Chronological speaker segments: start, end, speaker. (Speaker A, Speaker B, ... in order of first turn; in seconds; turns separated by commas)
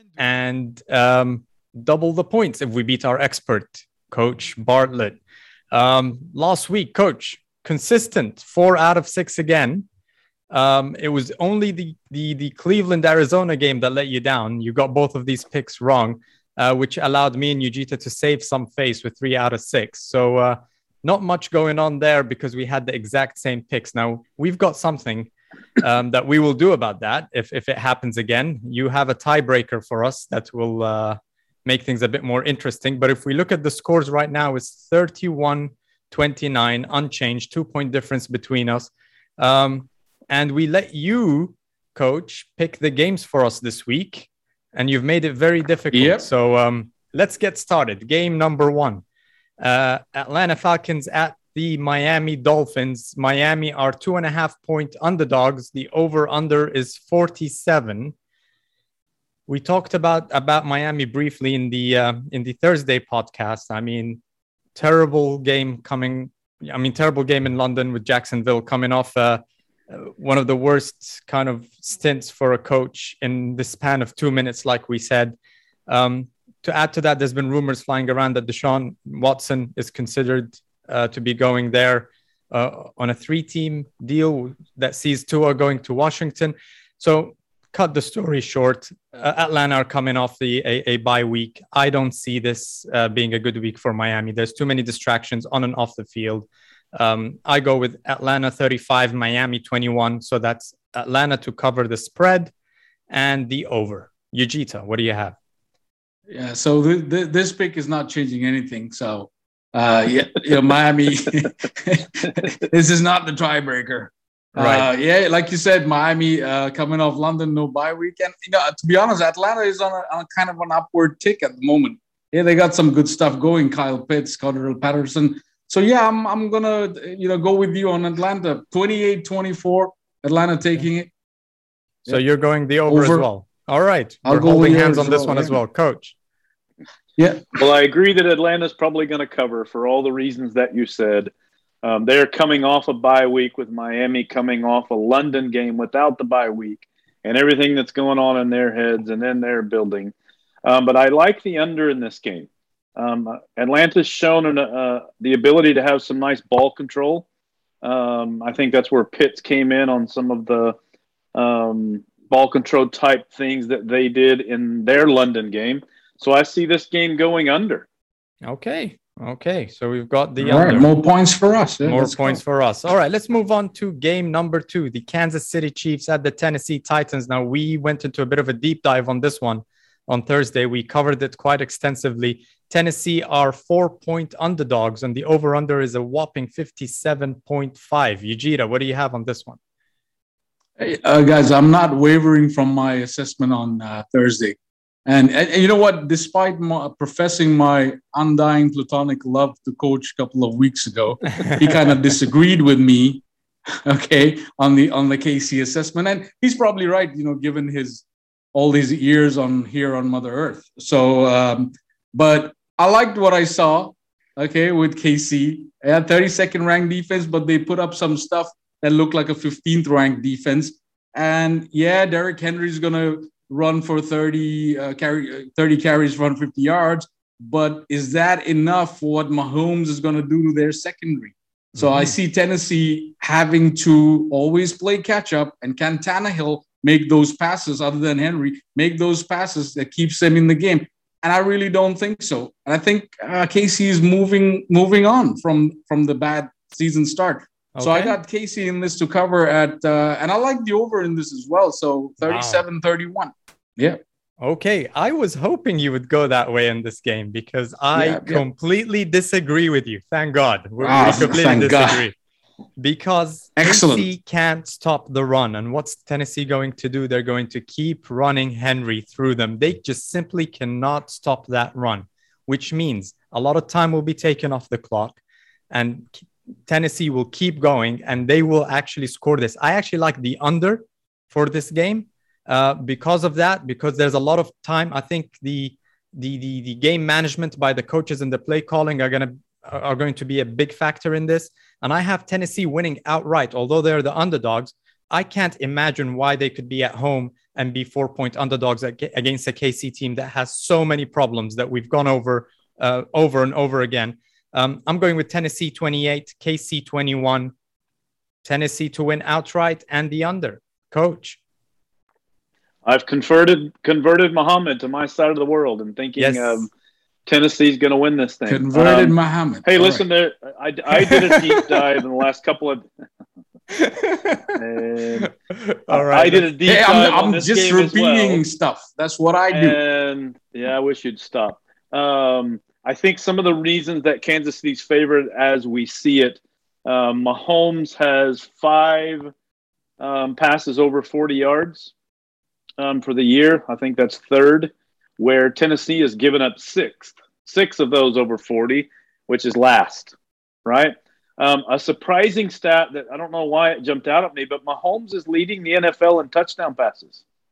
Speaker A: 0.2-5.2, Speaker A: 5.7-9.8, Speaker A: 10.5-49.0, Speaker B: 45.9-46.3, Speaker A: 49.6-58.1, Speaker A: 59.5-64.2, Speaker A: 64.8-75.4, Speaker A: 75.9-102.5, Speaker A: 103.1-105.4, Speaker B: 106.3-131.1, Speaker A: 114.6-114.9, Speaker A: 132.1-136.1, Speaker B: 132.9-133.3, Speaker B: 134.2-135.6, Speaker B: 137.2-137.5, Speaker C: 137.6-141.3, Speaker C: 141.8-150.1, Speaker C: 150.7-157.3, Speaker C: 157.8-160.8, Speaker C: 161.3-167.9, Speaker A: 168.4-170.9, Speaker B: 170.4-172.4, Speaker A: 171.9-189.6, Speaker B: 190.8-203.2, Speaker B: 203.8-254.0, Speaker A: 231.8-232.1, Speaker A: 247.8-248.2, Speaker A: 252.2-252.6, Speaker A: 254.4-262.1, Speaker B: 257.9-258.4, Speaker B: 260.8-262.1, Speaker A: 262.8-275.2, Speaker B: 263.6-264.1, Speaker A: 275.7-307.5, Speaker A: 308.4-311.4, Speaker C: 312.9-316.7, Speaker A: 316.2-316.7, Speaker C: 317.3-322.9, Speaker B: 318.5-320.1, Speaker A: 323.9-324.4, Speaker C: 324.6-325.3, Speaker A: 325.6-326.5, Speaker C: 325.9-328.4, Speaker B: 326.6-329.8, Speaker C: 329.5-339.3, Speaker C: 340.0-341.9, Speaker C: 342.8-350.1, Speaker C: 350.6-357.2